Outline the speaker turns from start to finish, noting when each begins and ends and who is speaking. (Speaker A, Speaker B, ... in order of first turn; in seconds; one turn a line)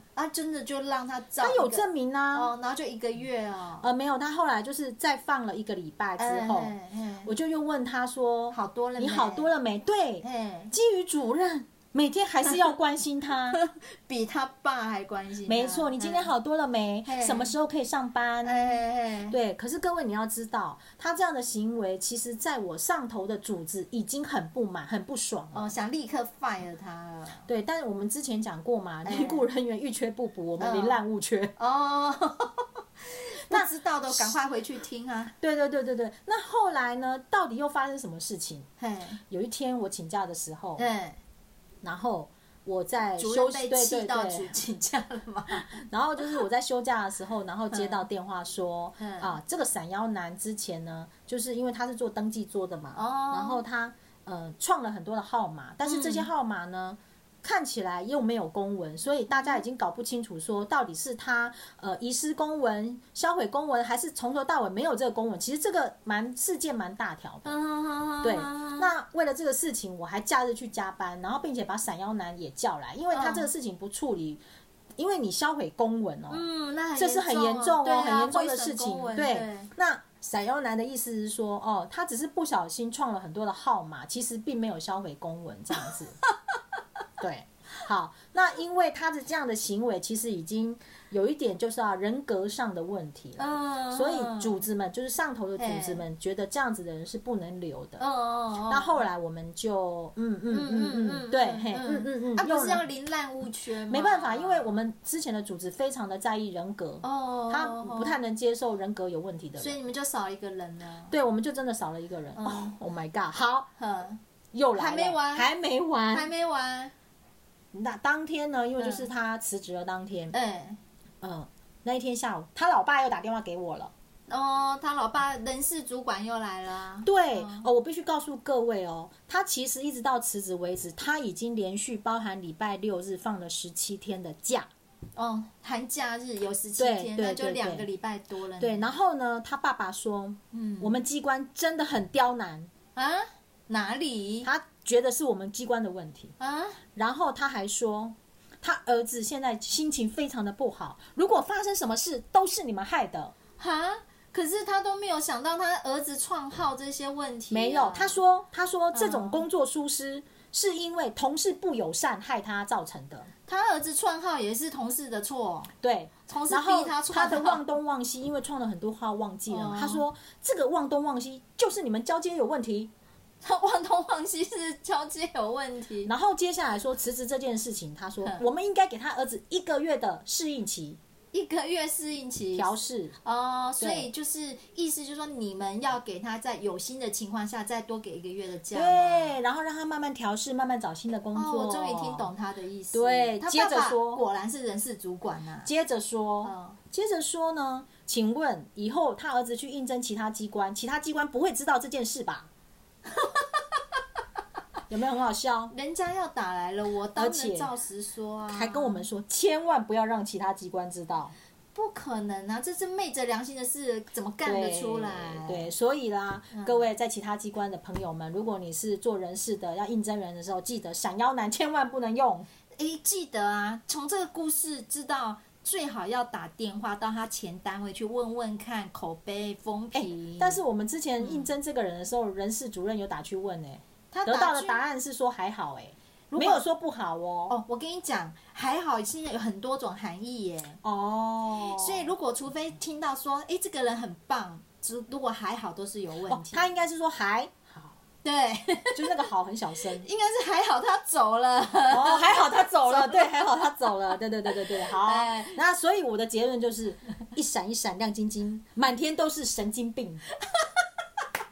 Speaker A: 0.1-3.9
Speaker B: 1.4-2.5
Speaker B: 3.8-6.7
Speaker A: 6.2-7.3
Speaker B: 7.2-13.6
Speaker A: 8.5-9.5
Speaker A: 10.2-10.7
Speaker A: 13.5-16.3
Speaker B: 15.4-18.6
Speaker A: 17.0-17.5
Speaker A: 18.4-19.4
Speaker B: 19.3-25.7
Speaker A: 25.5-27.4
Speaker B: 27.4-31.5
Speaker A: 29.0-29.4
Speaker A: 30.6-31.0
Speaker A: 31.6-35.3
Speaker B: 33.5-34.3
Speaker B: 35.4-38.6
Speaker A: 38.8-39.2
Speaker B: 39.3-40.8
Speaker A: 40.8-41.2
Speaker B: 41.8-44.5
Speaker A: 43.2-45.8
Speaker B: 45.5-67.5
Speaker A: 47.7-48.0
Speaker A: 49.0-49.3
Speaker A: 52.9-53.6
Speaker A: 55.8-56.3
Speaker A: 59.3-59.6
Speaker A: 67.4-68.9
Speaker B: 68.2-74.4
Speaker A: 73.1-73.5
Speaker B: 75.0-76.4
Speaker A: 76.3-79.7
Speaker B: 77.0-86.2
Speaker B: 87.2-98.0
Speaker A: 93.4-94.6
Speaker A: 95.6-96.0
Speaker A: 98.0-99.0
Speaker B: 98.7-102.8
Speaker A: 100.5-104.7
Speaker B: 103.9-109.8
Speaker A: 107.0-108.2
Speaker A: 109.6-111.1
Speaker B: 111.1-113.7
Speaker A: 112.3-112.7
Speaker A: 113.8-114.2
Speaker B: 114.5-116.3
Speaker A: 114.7-115.5
Speaker A: 116.1-116.9
Speaker B: 117.7-120.3
Speaker A: 118.8-119.1
Speaker A: 120.3-120.8
Speaker B: 121.2-123.9
Speaker A: 124.3-127.7
Speaker B: 127.0-134.7
Speaker A: 135.2-138.9
Speaker B: 136.8-137.9
Speaker B: 138.6-142.7
Speaker A: 140.5-141.0
Speaker A: 142.9-144.5
Speaker B: 144.4-146.3
Speaker A: 146.4-146.8
Speaker B: 146.9-153.3
Speaker A: 153.6-158.2
Speaker B: 157.5-163.3
Speaker A: 158.9-159.4
Speaker A: 163.5-165.7
Speaker B: 165.8-172.9
Speaker A: 166.3-167.6
Speaker A: 169.5-170.0
Speaker A: 173.4-176.1
Speaker B: 176.0-181.0
Speaker A: 181.3-182.7
Speaker B: 182.5-183.2
Speaker A: 183.2-189.4
Speaker B: 183.8-184.1
Speaker B: 188.7-192.3
Speaker A: 191.3-195.7
Speaker B: 192.9-194.2
Speaker B: 195.6-202.5
Speaker A: 196.4-196.8
Speaker A: 203.1-203.6
Speaker B: 204.9-205.7
Speaker A: 205.7-209.1
Speaker B: 207.2-207.7
Speaker B: 208.5-211.3
Speaker A: 211.7-215.7
Speaker B: 214.4-222.5
Speaker A: 216.5-216.9
Speaker A: 222.8-230.6
Speaker B: 229.9-237.6
Speaker A: 231.2-231.5
Speaker A: 234.1-234.8
Speaker A: 236.3-236.7
Speaker A: 237.5-240.8
Speaker B: 240.8-242.1
Speaker A: 241.6-246.7
Speaker B: 246.3-247.9
Speaker A: 248.2-249.2
Speaker B: 248.9-250.1
Speaker A: 250.0-254.0
Speaker B: 251.9-260.2
Speaker A: 254.5-255.6